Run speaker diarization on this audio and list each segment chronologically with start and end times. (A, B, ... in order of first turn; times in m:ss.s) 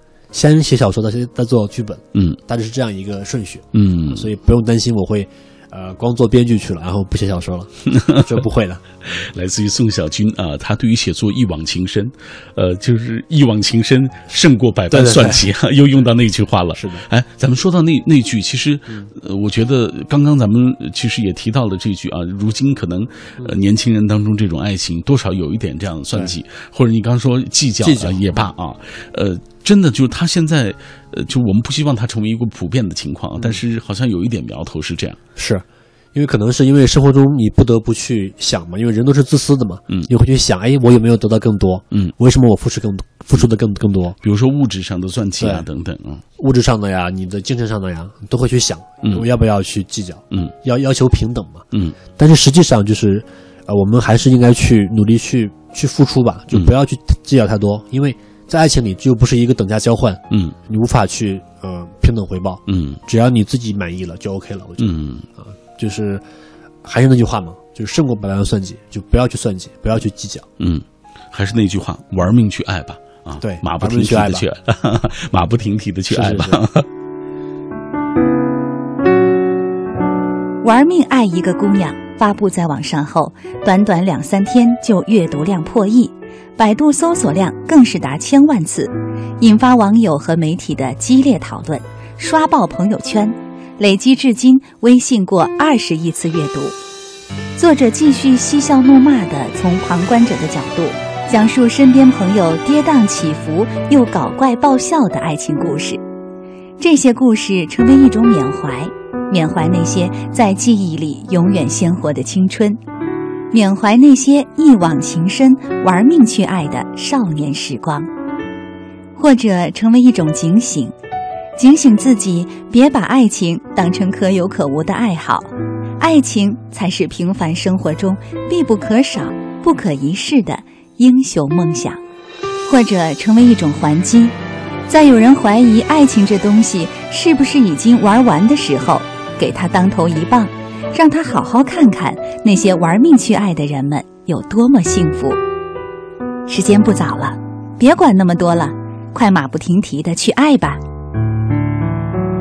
0:00.3-0:08.8 A
0:03.7-0:04.3 B
0:07.9-0:08.3 B
0:09.0-0:35.2 B
0:14.9-0:15.4 A
0:16.8-0:17.0 A
0:27.8-0:28.4 A
0:35.4-0:44.2 A
0:44.2-0:46.2 B
0:45.4-0:45.7 A
0:46.4-1:06.2 A
0:51.7-0:52.0 B
1:00.3-1:00.5 B
1:02.7-1:03.0 B
1:04.8-1:05.3 B
1:06.8-1:10.5 A
1:10.6-1:16.9 B
1:13.4-1:14.4 A
1:16.1-1:16.6 A
1:20.6-1:36.8 C
1:37.6-1:46.0 C
1:46.8-1:52.8 C
1:53.5-1:58.1 C
1:59.2-2:00.9 C
2:01.6-2:12.0 C
2:12.7-2:14.3 C
2:14.9-2:25.4 C
2:26.5-2:30.8 C